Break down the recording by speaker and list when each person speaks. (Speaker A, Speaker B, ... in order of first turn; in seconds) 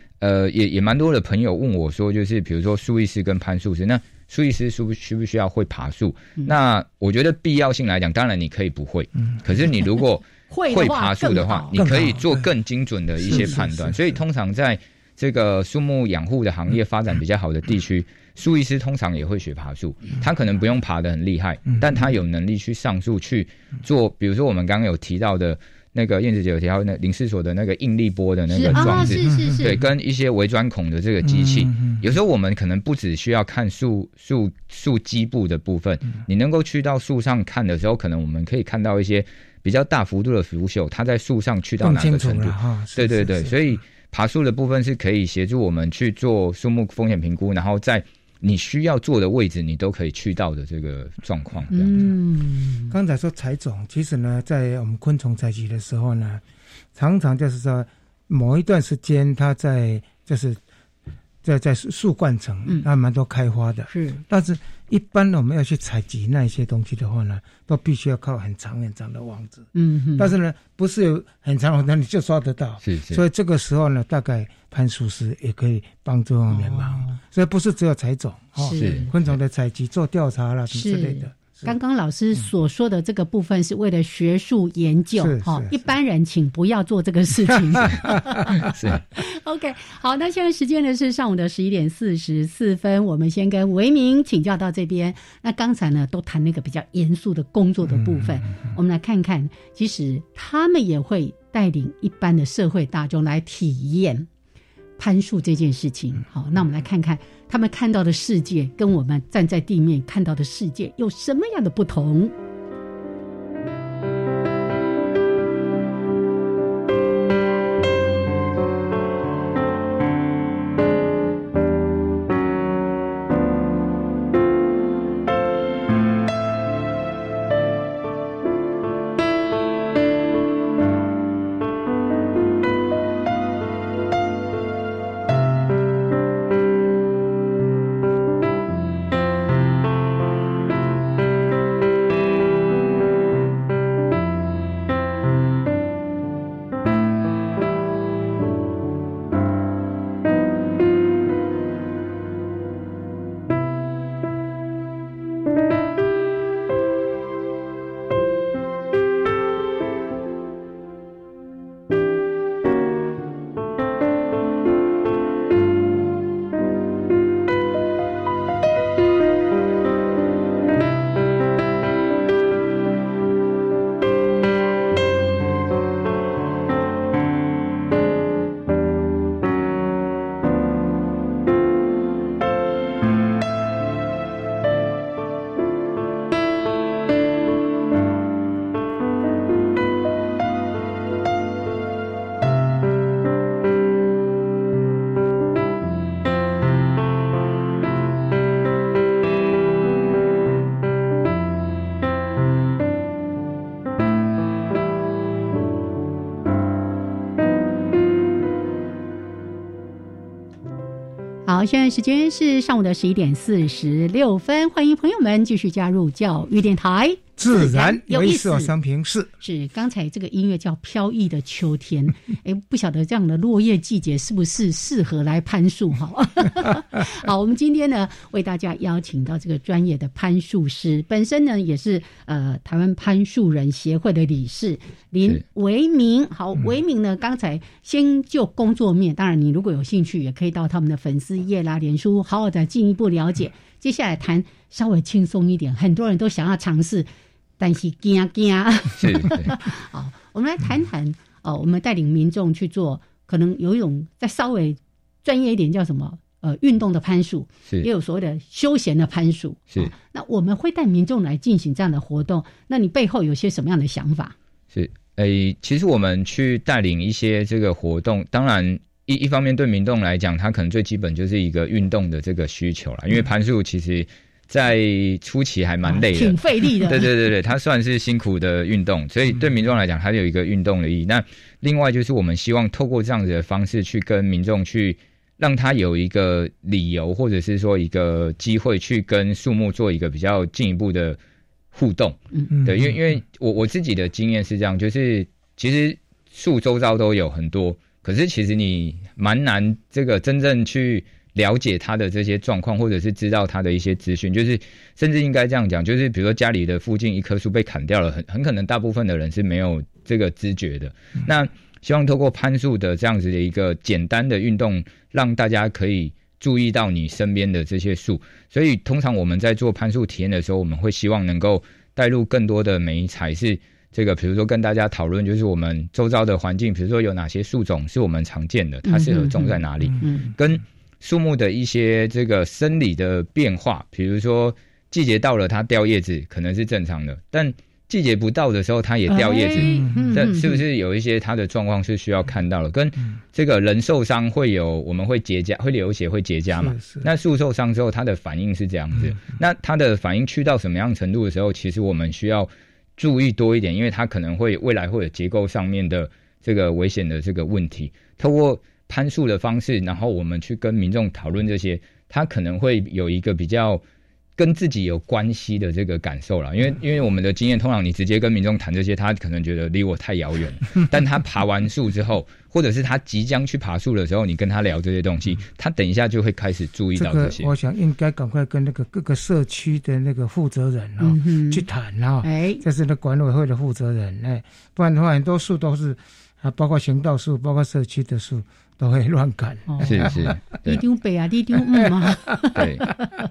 Speaker A: 0.2-51.9, 72.8-73.2, 78.7-79.1, 88.6-89.0, 249.0-249.6, 264.7-291.2, 291.7-363.8, 364.4-377.5, 389.8-390.8, 392.5-392.9
Speaker B: 10.5-11.8, 28.5-29.8, 51.7-52.9, 63.9-64.2, 69.7-70.3, 76.5-77.2, 78.6-79.1, 80.7-104.3, 105.0-112.3, 211.4-218.7, 219.4-247.1, 247.6-264.3, 275.8-277.1, 328.8-330.3, 339.1-340.6, 381.0-381.7, 382.2-382.6, 389.7-393.1
Speaker C: 11.7-12.5, 13.2-14.2, 28.6-29.8, 31.2-32.0, 41.8-43.5, 52.9-56.4, 56.9-60.6, 61.4-81.7, 85.2-85.8, 217.4-219.3, 292.6-292.9, 339.6-340.2, 346.5-347.1, 376.9-390.3